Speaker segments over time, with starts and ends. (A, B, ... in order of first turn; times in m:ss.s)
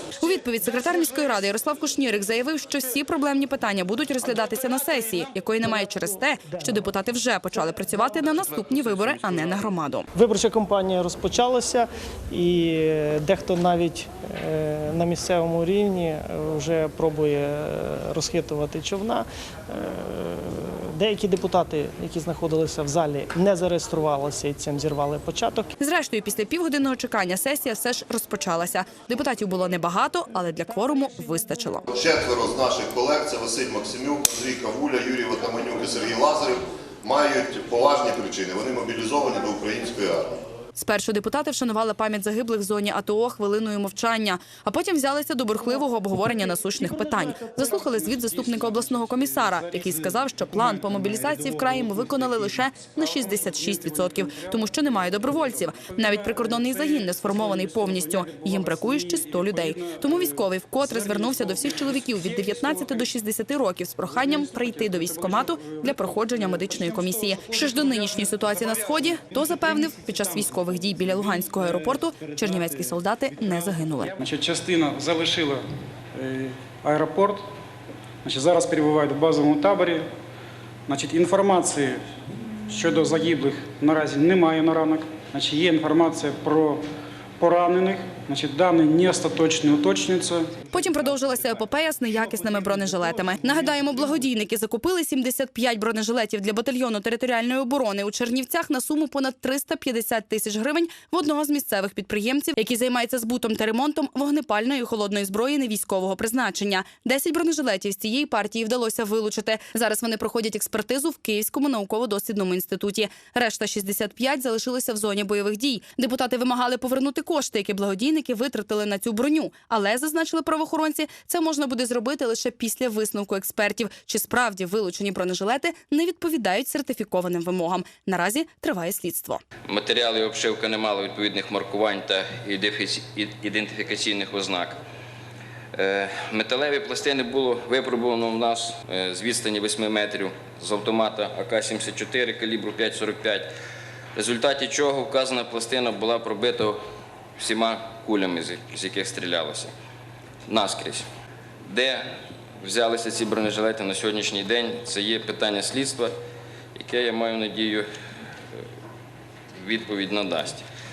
0:00.2-0:10.1 A
0:10.1-0:25.7 B
0:25.8-0:31.9 A
0:31.9-0:40.3 C
0:40.8-1:14.2 A
0:49.0-0:52.5 D
0:53.2-1:03.0 D
1:04.1-1:08.7 D
1:14.2-1:17.5 D
1:18.2-1:20.1 D
1:20.9-1:22.0 D
1:22.7-1:26.8 D
1:27.4-1:30.6 D
1:30.7-2:09.4 A
2:09.7-2:14.8 E
2:15.8-2:23.5 E
2:24.2-2:26.8 E
2:27.4-2:29.7 E
2:30.5-2:31.0 E
2:31.6-2:32.1 E
2:32.6-2:36.1 E
2:36.8-2:37.9 E
2:39.5-2:40.6 E